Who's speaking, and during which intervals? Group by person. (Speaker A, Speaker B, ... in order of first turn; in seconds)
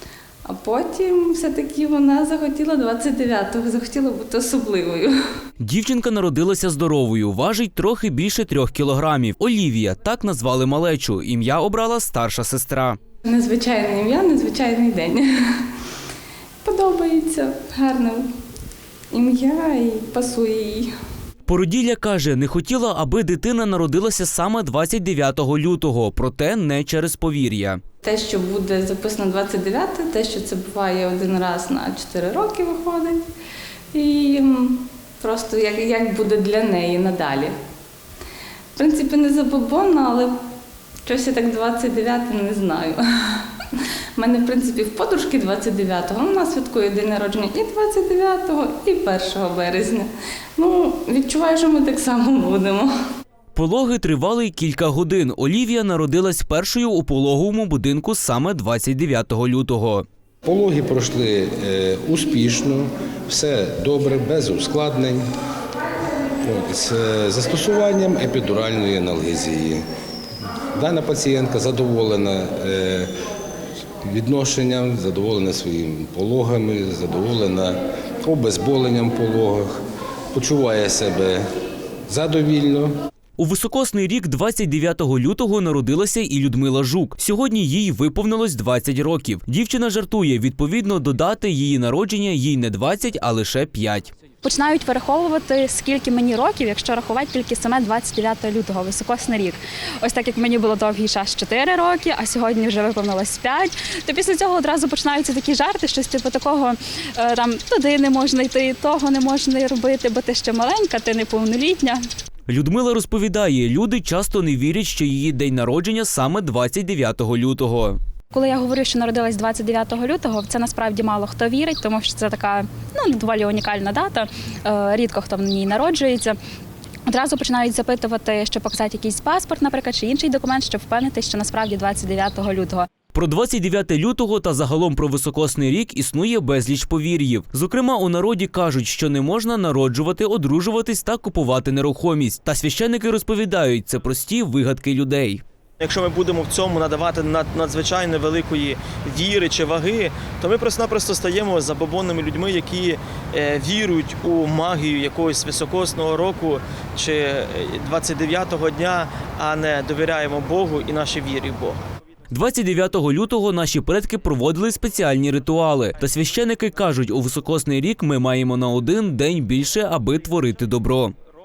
Speaker A: 0.5-5.1, 13.2-15.5, 16.6-18.2, 19.1-20.9, 28.0-33.2, 33.9-37.5, 38.8-40.4, 41.0-43.5, 44.2-52.9
Speaker B: 5.6-13.0, 21.5-27.8, 53.5-60.0, 83.4-94.1, 112.5-118.0, 133.1-145.4, 162.3-171.1
Speaker C: 60.5-65.3, 66.4-69.8, 70.8-73.1, 74.0-79.7, 80.3-81.4, 82.1-82.9
Speaker D: 94.4-112.0, 118.3-126.4, 127.1-132.9
Speaker E: 145.8-161.8